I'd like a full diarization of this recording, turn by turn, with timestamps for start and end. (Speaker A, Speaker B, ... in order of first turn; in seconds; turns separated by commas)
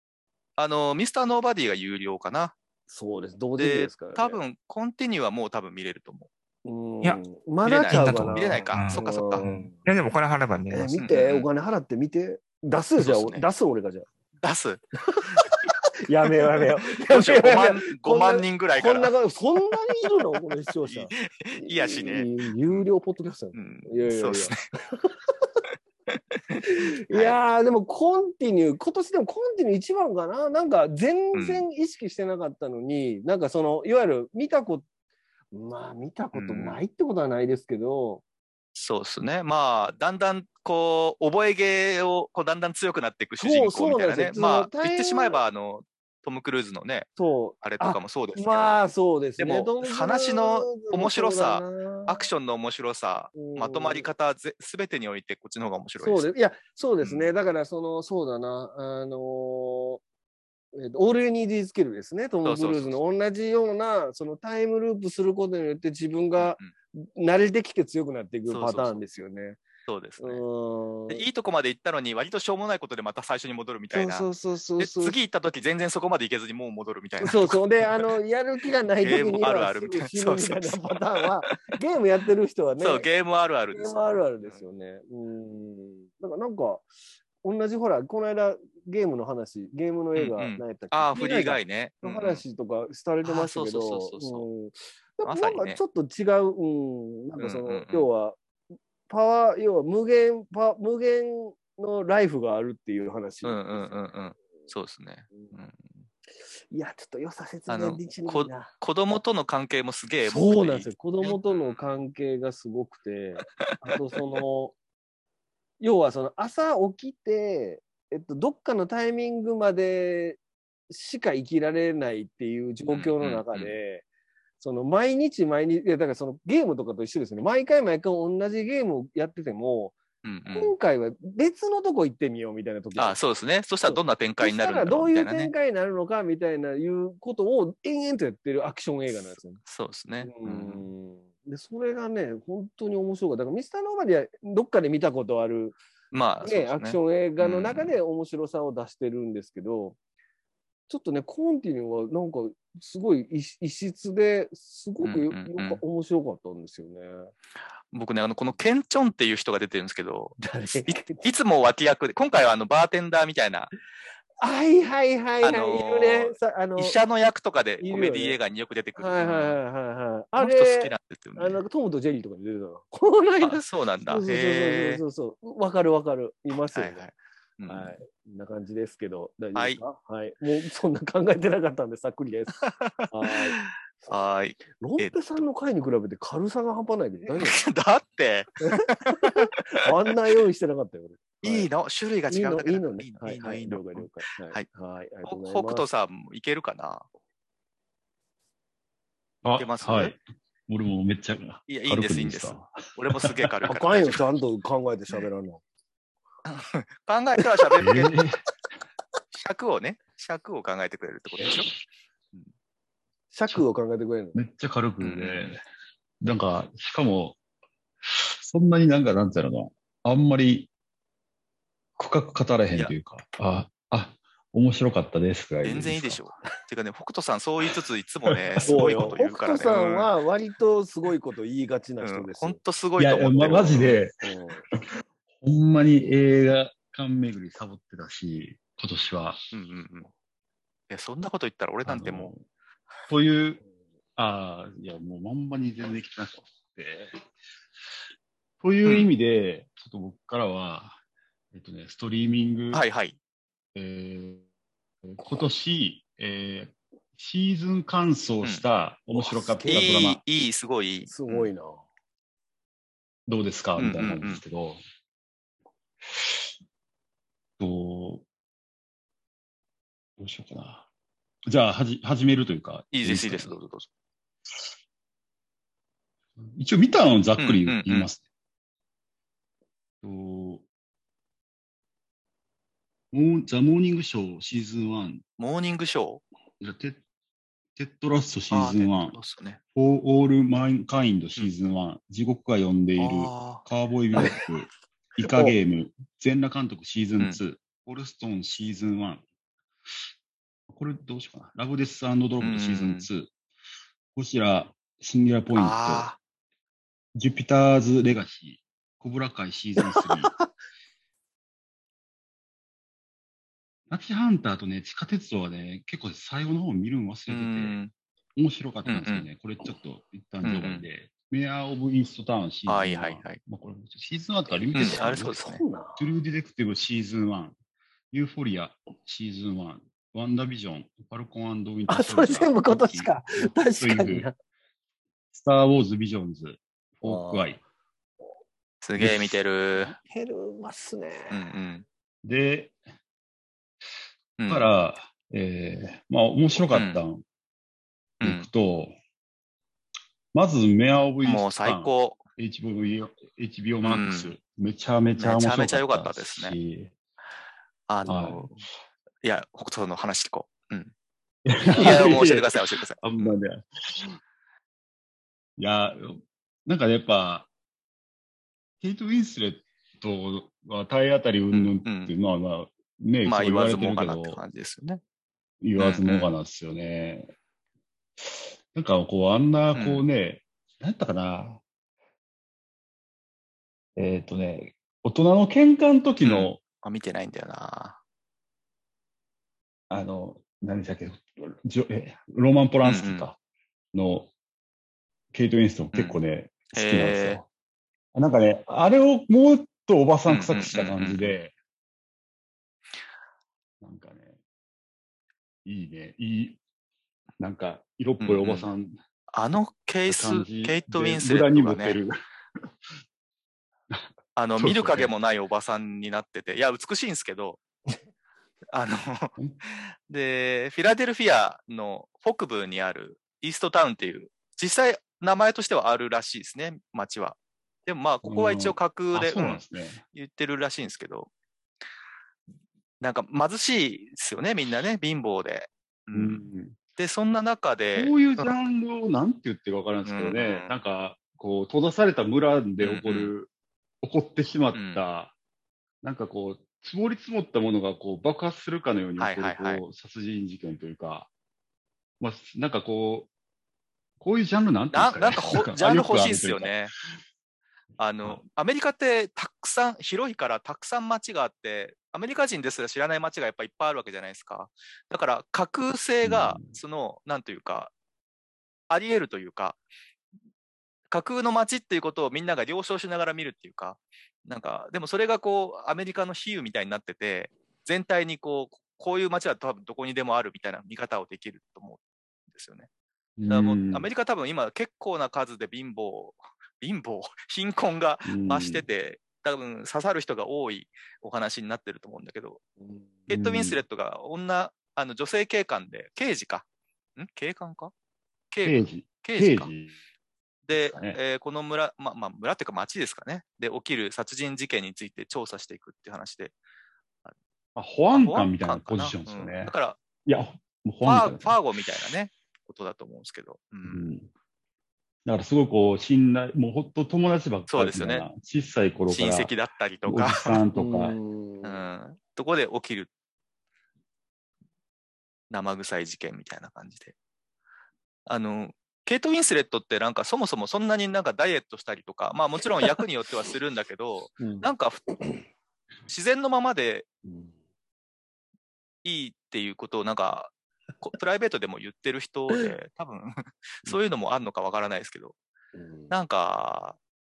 Speaker A: 0.6-2.5, Speaker B: 2.9-4.4, Speaker A: 3.6-6.3, Speaker B: 6.6-9.8, Speaker A: 7.6-9.4, Speaker C: 7.9-11.0, Speaker B: 10.7-14.1, Speaker A: 11.0-11.4, Speaker A: 13.0-13.4, Speaker A: 14.4-15.4, Speaker B: 15.1-25.6, Speaker A: 16.9-19.1, Speaker A: 20.8-22.9, Speaker A: 23.5-24.6, Speaker A: 26.5-27.4, Speaker B: 26.6-34.8, Speaker A: 31.3-31.6, Speaker B: 35.5-38.2, Speaker A: 36.3-36.8, Speaker A: 38.7-47.1, Speaker B: 43.4-45.4, Speaker B: 47.2-52.2, Speaker A: 47.6-48.8, Speaker A: 49.4-56.3, Speaker B: 53.4-54.1, Speaker B: 56.0-60.0, Speaker A: 57.0-57.3, Speaker B: 60.7-69.6, Speaker A: 62.4-63.0, Speaker A: 66.4-66.7, Speaker A: 68.5-69.0, Speaker A: 69.9-70.4, Speaker B: 70.2-71.2, Speaker A: 71.1-74.2, Speaker B: 73.9-75.2, Speaker A: 74.8-78.1, Speaker B: 77.2-83.1, Speaker A: 79.0-81.6, Speaker A: 82.8-84.5, Speaker B: 83.7-86.8, Speaker B: 87.4-98.4, Speaker A: 90.2-92.4, Speaker A: 93.2-94.5, Speaker A: 95.2-95.8, Speaker A: 97.4-98.1, Speaker B: 99.1-104.0, Speaker A: 103.4-105.8, Speaker B: 106.7-108.7, Speaker A: 107.7-111.9, Speaker B: 110.2-114.7, Speaker B: 115.8-120.4, Speaker B: 120.9-124.0, Speaker A: 122.9-123.8, Speaker B: 124.6-130.0, Speaker A: 130.2-130.7, Speaker B: 130.5-133.2, Speaker A: 133.0-135.5, Speaker B: 133.9-139.6, Speaker A: 139.6-140.8, Speaker B: 140.2-145.8, Speaker A: 146.1-147.9, Speaker B: 146.4-149.9, Speaker B: 150.9-157.3, Speaker A: 155.0-155.8, Speaker A: 157.9-163.7, Speaker B: 160.4-161.2, Speaker B: 164.4-167.0, Speaker A: 165.4-169.6, Speaker B: 167.8-168.4, Speaker B: 168.9-177.1, Speaker A: 170.3-171.6, Speaker A: 173.4-175.0, Speaker A: 176.7-177.9, Speaker B: 177.7-182.6, Speaker A: 179.5-179.8, Speaker A: 182.6-185.2, Speaker B: 183.1-187.7, Speaker A: 187.4-189.5, Speaker B: 188.6-191.7, Speaker A: 191.4-194.7, Speaker B: 192.3-195.8, Speaker A: 195.2-197.1, Speaker D: 199.4-203.5, Speaker A: 199.6-200.1, Speaker A: 201.7-204.2, Speaker B: 203.7-205.6, Speaker A: 206.4-208.1, Speaker D: 207.8-208.4, Speaker A: 209.3-211.7, Speaker D: 211.4-211.6, Speaker B: 213.3-214.3, Speaker D: 214.3-215.6, Speaker A: 215.0-215.5, Speaker D: 216.2-217.4, Speaker D: 218.0-220.7, Speaker D: 222.0-226.2, Speaker A: 225.6-230.1, Speaker D: 228.3-228.8, Speaker B: 228.7-232.6, Speaker A: 232.0-234.0, Speaker D: 233.0-234.8, Speaker B: 234.2-234.6, Speaker D: 235.4-239.4, Speaker A: 239.5-240.1, Speaker A: 240.9-242.3, Speaker D: 241.8-242.4, Speaker D: 243.1-243.6, Speaker D: 244.2-247.2, Speaker D: 248.6-251.0, Speaker D: 251.5-252.8, Speaker A: 252.7-253.2, Speaker D: 253.7-254.4, Speaker D: 255.0-260.2, Speaker B: 259.1-260.0, Speaker A: 259.7-261.5, Speaker B: 261.1-261.8, Speaker D: 263.3-264.8, Speaker A: 263.8-264.4, Speaker D: 266.1-266.4, Speaker D: 267.6-268.2, Speaker D: 270.2-270.8, Speaker D: 271.5-273.5, Speaker A: 272.9-273.9, Speaker D: 276.4-278.2, Speaker A: 277.4-278.1, Speaker D: 280.0-280.6, Speaker D: 283.1-285.2, Speaker A: 285.4-286.2, Speaker D: 286.6-287.0, Speaker D: 287.8-289.1, Speaker A: 288.5-289.6, Speaker D: 289.7-299.2, Speaker A: 293.0-293.6, Speaker B: 295.3-295.5, Speaker D: 300.7-303.3, Speaker A: 302.4-303.1, Speaker D: 304.1-306.1, Speaker A: 305.5-306.2, Speaker D: 307.1-310.3, Speaker B: 309.8-310.5, Speaker D: 313.9-317.8, Speaker A: 317.3-317.9, Speaker D: 318.4-325.3, Speaker A: 318.9-319.3, Speaker A: 320.4-320.8, Speaker A: 322.7-323.4, Speaker B: 324.5-326.1, Speaker A: 324.7-325.6, Speaker D: 326.0-327.5, Speaker D: 328.1-334.3, Speaker B: 331.9-334.3, Speaker D: 335.3-337.6, Speaker B: 337.0-337.5, Speaker A: 338.8-339.9, Speaker D: 338.9-339.4, Speaker B: 339.8-341.5, Speaker A: 341.3-341.8, Speaker D: 342.2-342.8, Speaker A: 344.4-344.7, Speaker D: 344.5-347.2, Speaker A: 346.7-347.0, Speaker D: 348.2-348.9, Speaker A: 348.2-348.5, Speaker D: 350.3-356.9, Speaker A: 351.2-352.2, Speaker A: 353.8-354.3, Speaker A: 355.2-356.6, Speaker A: 357.9-358.6, Speaker D: 358.1-358.5, Speaker A: 359.2-360.9, Speaker D: 361.4-364.2, Speaker A: 361.7-363.4, Speaker D: 365.6-367.5, Speaker D: 368.8-374.4, Speaker A: 371.5-372.1, Speaker A: 373.2-375.0, Speaker D: 375.6-377.3, Speaker A: 375.8-376.3, Speaker D: 378.2-381.6, Speaker A: 379.7-380.1, Speaker D: 383.9-386.6, Speaker A: 386.2-388.0, Speaker D: 389.9-393.4, Speaker A: 392.8-393.2, Speaker D: 393.9-394.3, Speaker D: 395.3-397.4, Speaker A: 396.7-397.4, Speaker D: 398.1-401.5, Speaker A: 400.3-401.3, Speaker D: 403.8-404.4, Speaker D: 405.6-406.6, Speaker D: 407.4-408.9, Speaker A: 408.2-408.7, Speaker A: 409.3-412.0, Speaker D: 410.1-412.6, Speaker A: 414.4-417.6, Speaker D: 414.6-415.1, Speaker A: 418.7-419.3, Speaker A: 420.1-429.6, Speaker D: 428.2-430.0, Speaker A: 430.1-431.3, Speaker A: 433.0-436.4, Speaker D: 436.1-436.8, Speaker A: 436.9-438.5, Speaker D: 437.9-443.5, Speaker A: 440.0-440.7, Speaker A: 442.8-443.3, Speaker D: 444.0-445.3, Speaker A: 444.7-445.0, Speaker D: 446.0-451.3, Speaker A: 449.2-449.8, Speaker D: 452.2-453.3, Speaker D: 454.2-456.7, Speaker A: 454.9-456.9, Speaker A: 458.0-467.9, Speaker D: 466.2-466.7, Speaker A: 468.9-469.8, Speaker A: 471.1-482.9, Speaker D: 483.4-484.1, Speaker A: 483.5-492.6, Speaker D: 488.2-488.8, Speaker A: 493.3-496.6, Speaker D: 493.3-493.8, Speaker A: 497.2-497.9, Speaker A: 498.5-499.7, Speaker D: 498.6-499.9, Speaker A: 500.7-506.5, Speaker D: 500.7-501.2, Speaker D: 507.7-509.7, Speaker A: 508.1-510.0, Speaker D: 510.2-511.6, Speaker A: 511.0-514.1, Speaker D: 513.9-514.3, Speaker D: 515.2-519.5, Speaker A: 517.7-518.3, Speaker A: 519.1-520.6, Speaker D: 520.0-521.2, Speaker B: 520.7-521.9, Speaker A: 521.6-523.1, Speaker A: 525.5-527.1, Speaker A: 528.3-535.0, Speaker B: 534.4-535.4, Speaker A: 536.1-537.0, Speaker B: 537.2-537.5, Speaker A: 539.0-545.4, Speaker B: 545.7-546.1, Speaker A: 546.1-547.0